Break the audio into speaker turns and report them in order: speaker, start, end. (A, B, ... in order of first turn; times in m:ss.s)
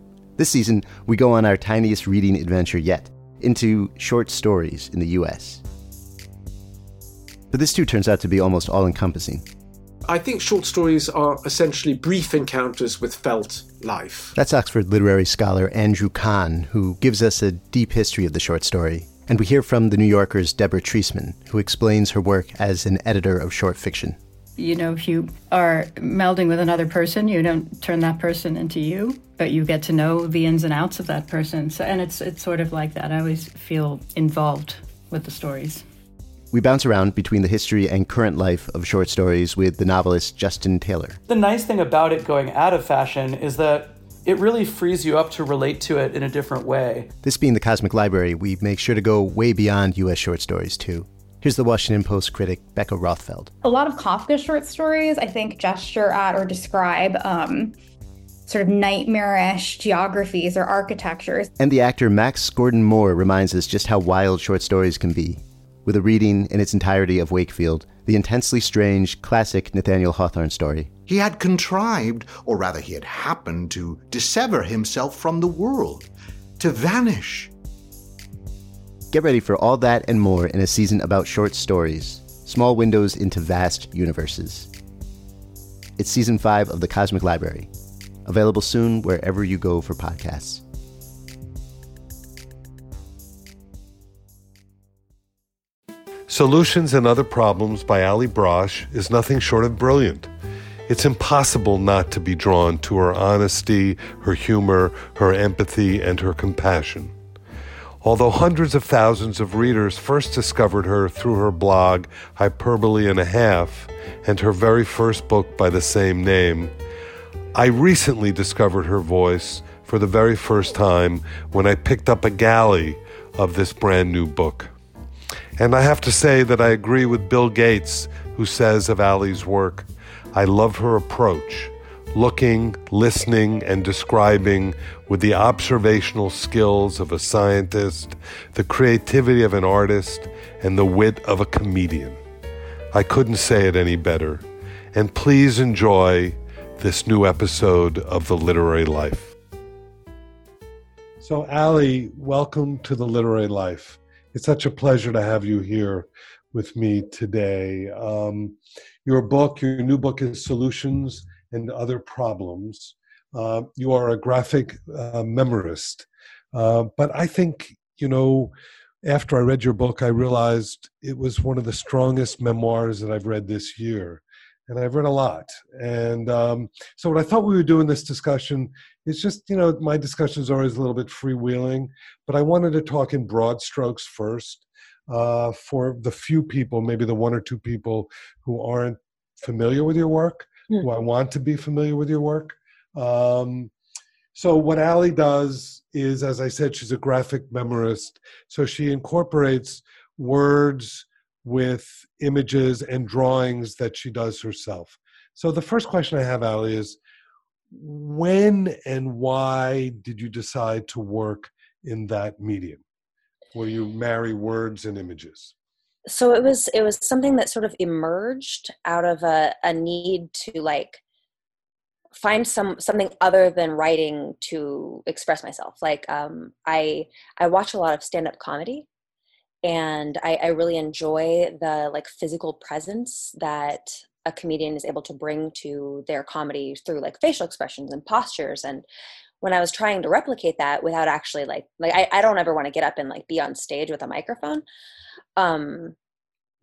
0:00.4-0:05.6 A
0:07.5-0:09.4 A
0:10.0-0:14.3 B
0:14.3-0:24.2 A
0:24.6-0:35.8 C
0:36.5-0:41.2 A
0:41.3-0:47.1 D
0:47.2-0:53.5 A
0:53.6-0:57.8 E
0:58.5-1:01.5 E
1:01.6-1:10.9 A
1:11.1-1:17.5 F
1:19.1-1:24.7 A
1:26.0-1:27.7 A
1:28.2-1:30.6 A
1:36.3-1:40.3 G
1:40.9-1:47.1 G
1:48.0-1:56.7 G
1:57.5-2:04.7 G
2:05.6-2:22.2 G
2:22.9-2:29.4 G
2:31.2-3:13.7 G
3:14.3-3:27.0 G
3:27.7-3:32.8 G
3:33.5-3:35.5 G
3:36.0-3:41.0 H
3:42.1-3:48.9 H
3:49.6-3:58.8 H
3:59.4-4:04.6 H
4:05.4-4:05.9 H